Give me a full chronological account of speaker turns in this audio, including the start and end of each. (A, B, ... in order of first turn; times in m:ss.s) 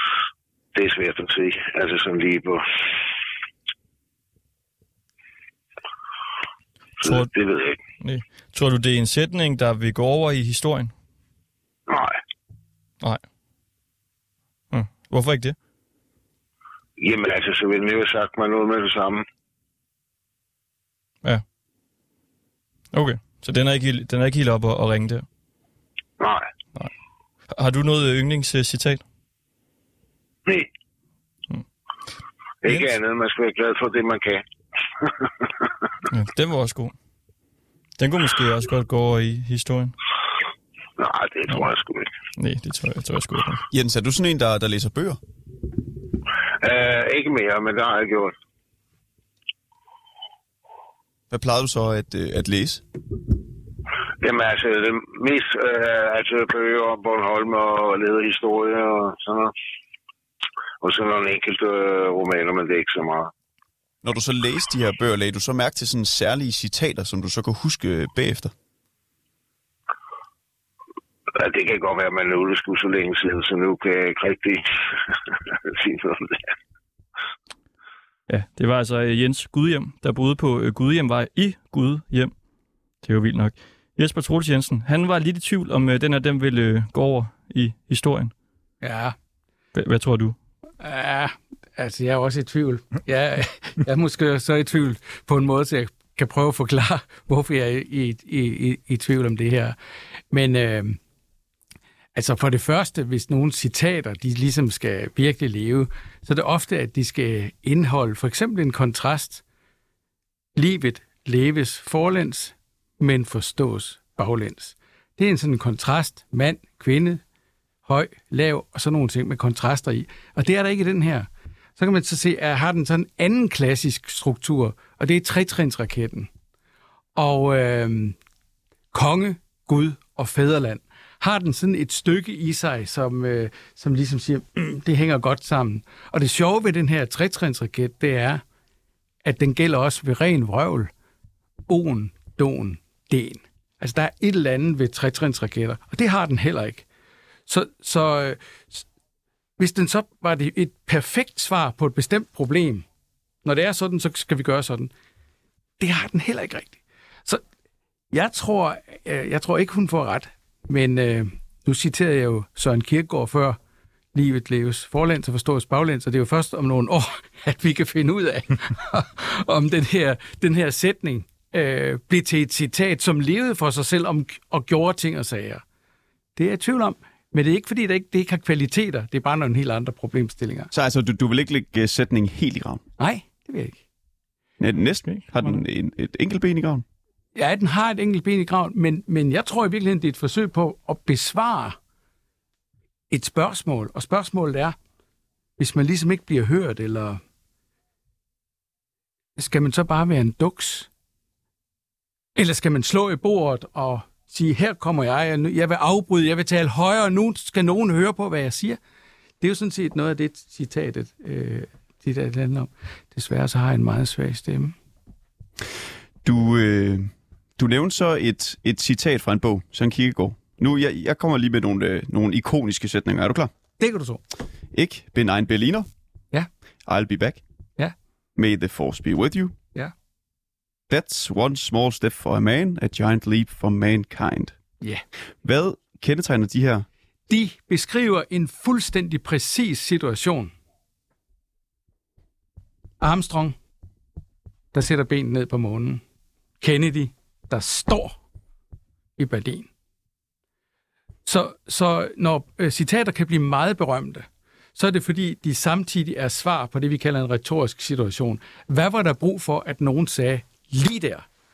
0:00.7-0:02.6 A
0:07.0-0:07.8 A
0:07.0-0:07.3 B
0:08.0-0:10.9 B
0:11.9-0:12.2 A
0:14.7-0:15.6 B
0:17.0-0:19.2 A
0:22.9-0:25.3 B
0:26.2-0:26.4 A
0:27.5-0:29.0 B
0:32.6-0:34.4 A
0:32.7-0:33.0 B
0:36.1-0:36.9 B
0:38.0-0:40.0 B
0:41.0-0:42.1 A
0:42.4-0:43.6 B
0:43.7-0:45.2 C
0:46.6-0:48.3 A
0:51.3-0:52.8 C
0:54.2-0:59.5 A
1:00.8-1:03.3 A
1:04.0-1:08.5 C
1:11.4-1:14.6 A
1:15.7-1:16.5 A
1:18.3-1:22.3 B
1:23.0-1:28.3 B
1:28.8-1:29.1 D
1:29.7-1:30.4 B
1:30.8-1:39.8 D
1:40.3-1:41.0 D
1:42.1-1:49.4 D
1:50.6-1:57.2 D
1:57.8-2:06.3 D
2:07.2-2:08.2 D
2:08.9-2:18.4 D
2:19.2-2:20.9 D
2:21.7-2:26.9 D
2:27.5-2:28.9 D
2:29.6-2:32.9 D
2:33.4-2:34.9 D
2:35.8-2:37.4 D
2:38.1-2:43.6 D
2:44.1-2:55.6 D
2:56.4-3:00.7 D
3:00.7-3:02.8 C
3:03.0-3:03.8 D
3:04.6-3:06.8 C
3:05.0-3:05.6 B
3:07.4-3:11.8 D
3:13.1-3:14.8 D
3:15.6-3:17.2 D
3:19.4-3:20.9 D
3:22.4-3:28.8 D
3:29.4-3:34.8 D
3:36.2-3:43.5 C
3:43.8-3:44.2 D
3:44.7-3:45.9 C
3:46.9-3:47.4 C
3:48.4-3:49.6 C
3:50.9-3:54.6 C
3:55.4-3:56.9 C
3:57.3-4:00.5 D
4:03.0-4:03.6 D
4:04.7-4:06.0 D
4:06.6-4:08.2 D
4:09.2-4:09.7 D
4:11.2-4:21.3 D